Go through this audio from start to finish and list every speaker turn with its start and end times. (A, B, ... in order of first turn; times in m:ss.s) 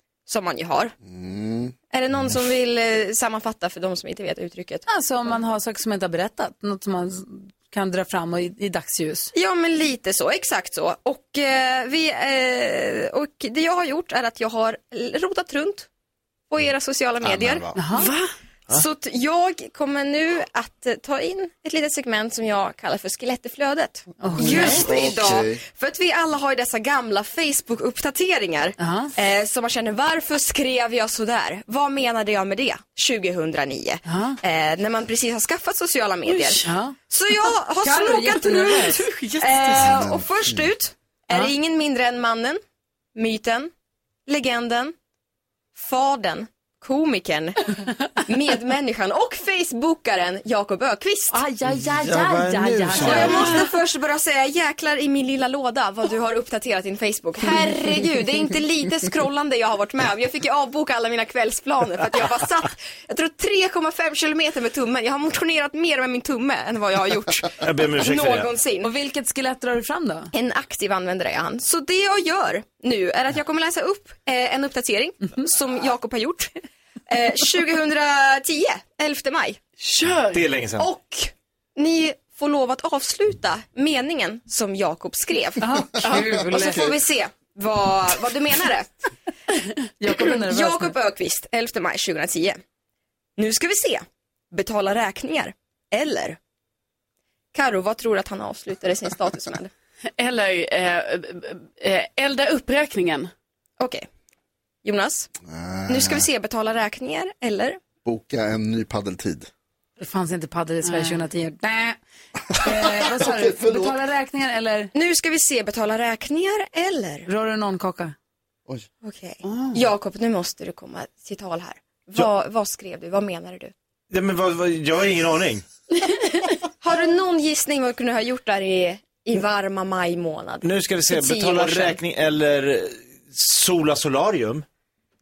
0:00.3-0:00.9 A
0:01.0-0:01.8 B
0:01.9-0:04.9 A
0:04.9-0:09.3 C
0:09.3-0:15.9 A
0:16.5-0:17.8 A
0:17.2-0:17.9 B
0:17.8-0:18.1 C
0:17.9-0:18.3 D
0:18.7-0:42.6 A
0:24.2-0:24.9 C
0:24.4-0:25.6 B
0:28.8-0:29.1 C
0:34.1-0:34.4 C
0:36.3-0:36.7 D
0:36.6-0:37.0 C
0:37.8-0:39.1 C
0:39.0-0:40.0 D
0:39.8-0:40.6 B
0:43.2-0:43.7 A
0:44.3-0:44.9 A
0:45.8-0:51.4 A
0:51.3-0:53.6 C
0:51.8-0:53.6 E
0:53.0-1:08.9 A
1:07.6-1:08.5 E
1:08.8-1:10.3 C
1:10.3-1:16.6 A
1:17.1-1:19.6 A
1:19.8-1:20.6 D
1:20.3-1:20.9 E
1:20.8-1:25.7 A
1:25.6-1:26.8 C
1:26.0-1:27.0 B
1:26.3-1:29.1 A
1:30.0-1:31.0 C
1:30.1-1:32.6 A
1:33.4-1:36.4 A
1:37.5-1:39.7 A
1:40.2-1:43.3 D
1:43.8-1:44.1 A
1:44.8-1:45.3 A
1:45.5-1:46.3 B
1:45.9-1:47.8 A
1:48.0-1:49.5 B
1:50.0-1:52.0 C
1:50.9-1:51.2 D
1:52.6-1:54.9 C
1:52.6-1:54.0 B
1:54.9-1:57.3 A
1:57.3-1:58.2 C
1:59.0-2:03.7 A
1:59.4-1:59.8 D
2:04.1-2:05.6 E
2:06.8-2:12.0 A
2:10.6-2:14.6 E